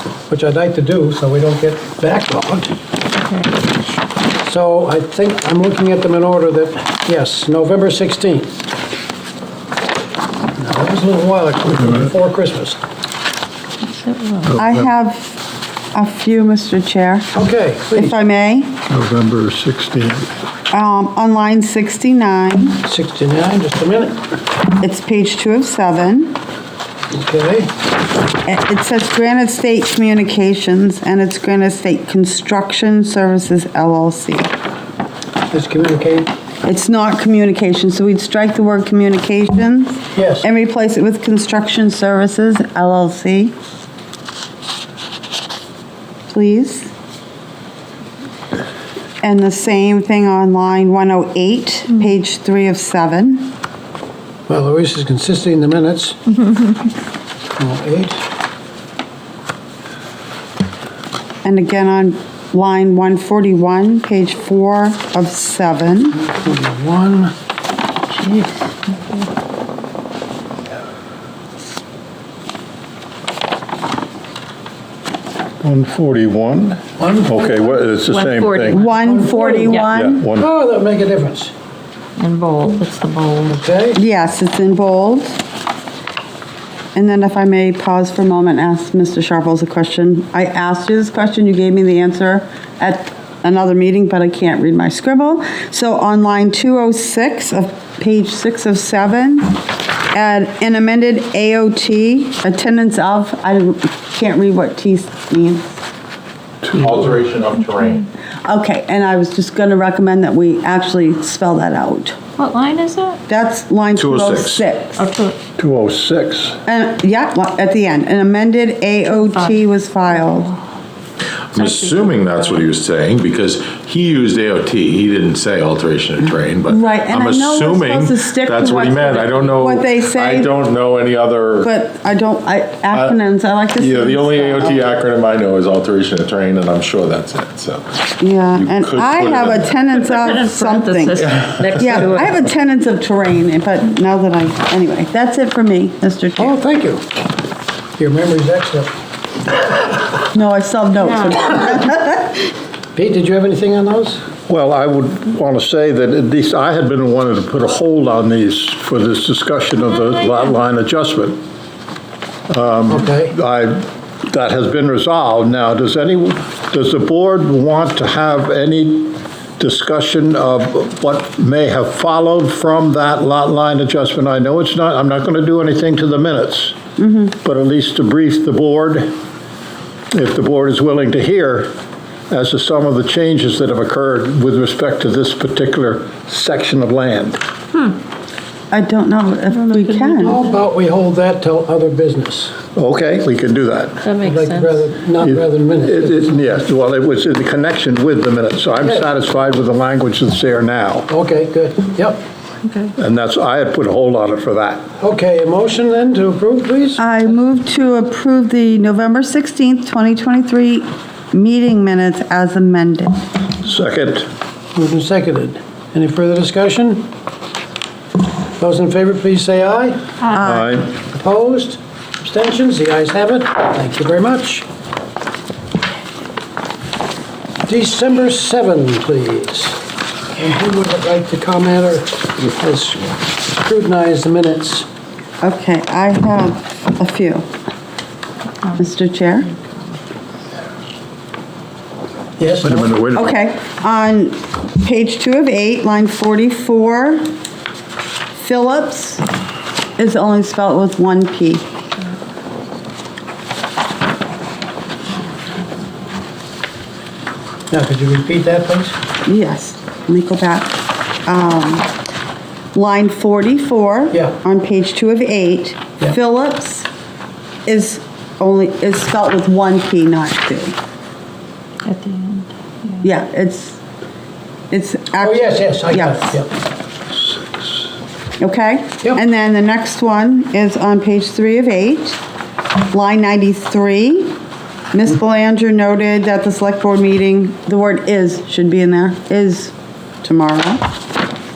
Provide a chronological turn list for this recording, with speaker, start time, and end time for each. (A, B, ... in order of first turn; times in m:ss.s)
0:00.3-0:02.8 A
0:03.2-0:03.5 B
0:04.4-0:08.5 A
0:10.5-0:12.8 A
0:13.9-0:14.4 B
0:14.4-0:14.9 C
0:14.6-0:17.3 D
0:17.3-0:18.2 A
0:17.9-0:18.8 D
0:18.9-0:20.3 C
0:20.7-0:22.8 D
0:22.8-0:24.2 A
0:24.8-0:26.4 D
0:27.1-0:27.7 A
0:28.4-0:34.5 D
0:35.5-0:36.3 A
0:36.6-0:43.5 D
0:40.1-0:40.5 A
0:46.3-0:46.9 D
0:49.2-0:53.5 D
0:54.5-0:56.6 A
0:57.6-0:58.2 A
1:01.4-1:06.2 D
1:06.1-1:07.3 A
1:08.2-1:09.2 B
1:15.6-1:18.9 C
1:17.0-1:17.6 A
1:18.1-1:19.9 B
1:18.7-1:20.2 D
1:19.0-1:21.5 A
1:19.9-1:20.5 C
1:22.2-1:23.6 B
1:23.5-1:24.0 A
1:23.9-1:25.4 D
1:26.9-1:39.6 D
1:40.1-1:45.8 D
1:46.6-1:47.0 C
1:46.7-1:48.1 E
1:48.4-1:52.2 D
1:52.4-1:53.2 B
1:53.3-1:55.0 D
1:53.9-1:54.6 E
1:55.0-1:55.4 B
1:55.6-1:56.6 C
1:56.6-2:00.5 D
1:59.2-1:59.6 B
2:00.2-2:00.6 B
2:01.5-2:11.7 E
2:01.5-2:02.7 B
2:06.6-2:10.5 D
2:11.6-2:14.9 D
2:12.9-2:13.2 E
2:13.7-2:17.8 E
2:18.2-2:26.6 D
2:18.5-2:20.1 E
2:20.2-2:22.3 B
2:21.3-2:21.6 E
2:26.4-2:27.0 A
2:28.0-2:29.0 A
2:30.3-2:32.5 D
2:31.0-2:31.6 B
2:32.9-2:34.2 A
2:34.5-2:41.4 C
2:42.5-2:56.8 C
2:42.9-2:43.3 A
2:57.0-2:57.3 D
2:57.4-2:59.2 C
3:00.1-3:01.7 C
3:02.3-3:07.4 C
3:08.7-3:10.4 D
3:09.5-3:10.4 B
3:10.2-3:12.5 A
3:12.7-3:14.0 C
3:14.0-3:14.8 B
3:14.2-3:16.6 A
3:15.2-3:21.1 C
3:18.8-3:19.0 A
3:21.1-3:22.2 A
3:22.6-3:22.9 B
3:23.0-3:24.8 C
3:25.0-3:27.1 A
3:27.0-3:33.2 D
3:33.6-3:34.3 C
3:34.7-3:37.1 A
3:38.6-3:40.0 A
3:40.4-3:40.9 C
3:40.9-3:44.6 A
3:47.7-3:49.8 A
3:50.3-3:54.9 A
3:55.4-3:57.4 D
3:58.6-3:58.9 B
3:58.8-3:59.5 D
3:59.4-3:59.9 B
4:02.4-4:02.9 A
4:02.6-4:03.3 C
4:03.2-4:07.2 D
4:08.4-4:09.2 D
4:10.0-4:11.6 D
4:17.7-4:19.0 A
4:19.2-4:21.9 D
4:22.7-4:26.9 D
4:27.6-4:30.7 D
4:31.8-4:33.0 B
4:33.0-4:33.8 D
4:34.7-4:36.3 D
4:35.2-4:36.5 A
4:38.4-4:42.2 D
4:42.9-4:44.4 D
4:44.9-4:50.8 D